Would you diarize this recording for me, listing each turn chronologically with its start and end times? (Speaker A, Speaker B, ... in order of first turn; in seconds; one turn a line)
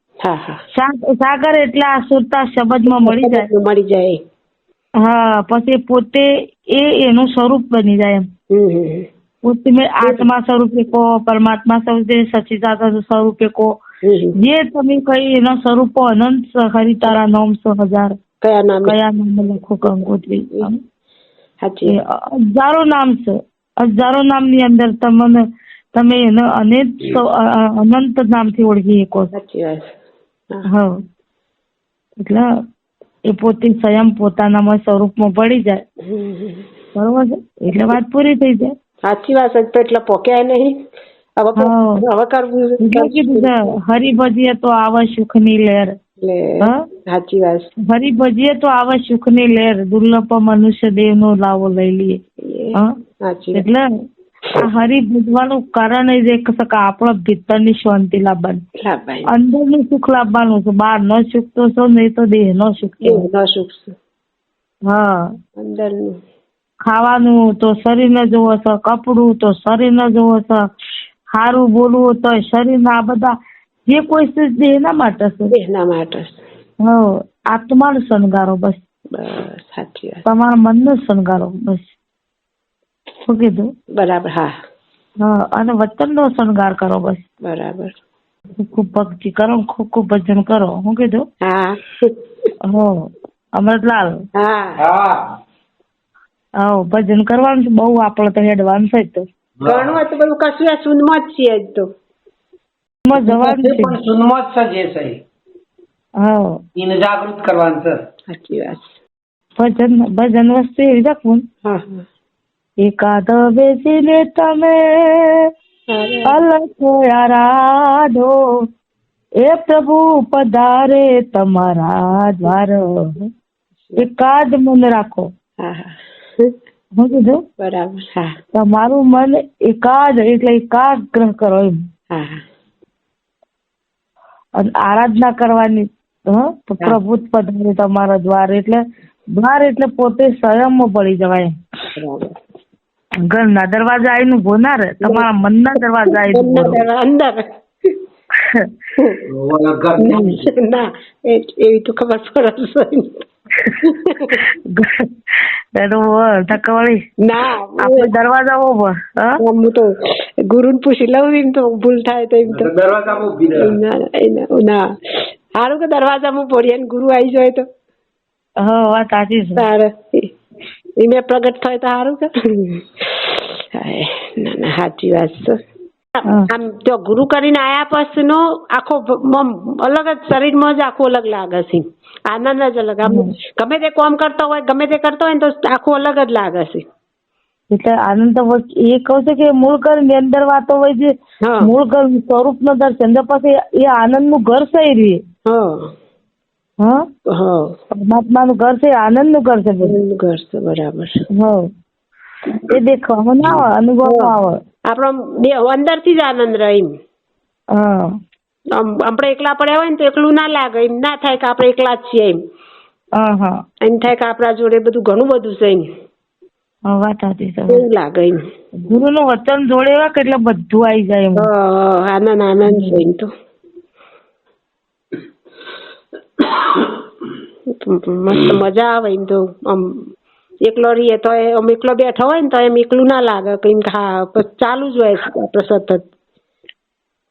Speaker A: 0.2-0.6
Speaker B: 0.7-3.5
Speaker A: 2.9-4.2
Speaker B: 5.0-8.3
Speaker A: 8.5-9.1
Speaker B: 9.4-13.8
Speaker A: 10.0-10.3
Speaker A: 14.0-14.4
Speaker B: 14.4-18.1
Speaker A: 18.4-19.0
Speaker B: 18.9-20.8
Speaker A: 19.8-20.7
Speaker A: 21.6-22.0
Speaker B: 21.9-25.4
Speaker B: 25.9-29.3
Speaker A: 29.3-29.9
Speaker B: 32.2-32.5
Speaker B: 33.3-35.8
Speaker A: 36.0-36.7
Speaker B: 37.0-38.7
Speaker A: 39.1-40.8
Speaker A: 41.4-43.5
Speaker B: 41.6-42.0
Speaker B: 42.8-45.9
Speaker A: 46.2-47.7
Speaker B: 47.9-52.2
Speaker A: 52.4-53.7
Speaker B: 53.5-53.9
Speaker B: 54.6-58.6
Speaker A: 58.8-59.3
Speaker B: 59.3-63.2
Speaker A: 63.0-63.9
Speaker B: 64.9-65.2
Speaker A: 65.6-66.2
Speaker B: 66.9-70.6
Speaker B: 71.3-73.3
Speaker B: 73.9-75.5
Speaker A: 75.5-76.4
Speaker B: 76.8-78.8
Speaker A: 79.1-80.2
Speaker B: 80.2-81.9
Speaker B: 83.2-83.7
Speaker A: 84.0-84.5
Speaker B: 85.2-87.2
Speaker A: 87.4-88.0
Speaker B: 88.6-91.2
Speaker A: 91.4-92.1
Speaker B: 92.7-94.2
Speaker A: 94.4-94.8
Speaker C: 94.8-95.2
Speaker B: 96.6-99.2
Speaker C: 99.6-100.0
Speaker A: 99.6-101.9
Speaker B: 103.1-104.0
Speaker C: 103.2-105.2
Speaker B: 106.2-106.6
Speaker C: 106.8-108.0
Speaker A: 108.3-109.0
Speaker B: 109.6-111.4
Speaker A: 111.6-112.0
Speaker B: 112.8-115.5
Speaker A: 115.9-116.4
Speaker B: 116.3-118.3
Speaker B: 119.4-123.3
Speaker B: 124.0-125.3
Speaker A: 125.6-126.5
Speaker B: 127.0-127.4
Speaker A: 127.6-128.3
Speaker B: 128.5-131.8
Speaker A: 132.1-132.4
Speaker B: 134.6-138.8
Speaker B: 139.3-141.5
Speaker A: 142.0-142.3
Speaker B: 143.3-146.8
Speaker A: 146.2-147.9
Speaker C: 149.3-150.5
Speaker A: 150.0-153.2
Speaker A: 153.8-154.4
Speaker B: 154.7-157.0
Speaker A: 157.2-158.1
Speaker B: 157.8-159.4
Speaker A: 159.4-159.9
Speaker A: 160.5-162.7
Speaker C: 162.5-163.8
Speaker A: 163.6-167.6
Speaker B: 168.6-169.7
Speaker A: 169.6-170.3
Speaker A: 171.0-175.6
Speaker A: 176.2-186.8
Speaker B: 187.7-195.2
Speaker A: 191.4-191.7
Speaker A: 195.5-195.9
Speaker A: 197.3-197.7
Speaker B: 197.9-200.0
Speaker A: 199.8-201.1
Speaker B: 201.4-201.6
Speaker B: 202.7-204.6
Speaker A: 204.1-204.3
Speaker A: 204.9-206.9
Speaker B: 207.8-208.1
Speaker A: 208.7-212.4
Speaker B: 213.2-213.6
Speaker A: 213.8-215.9
Speaker B: 216.9-217.9
Speaker A: 217.7-218.4
Speaker B: 218.8-221.5
Speaker A: 221.4-223.3
Speaker B: 222.7-223.0
Speaker A: 227.8-230.1
Speaker A: 230.6-236.1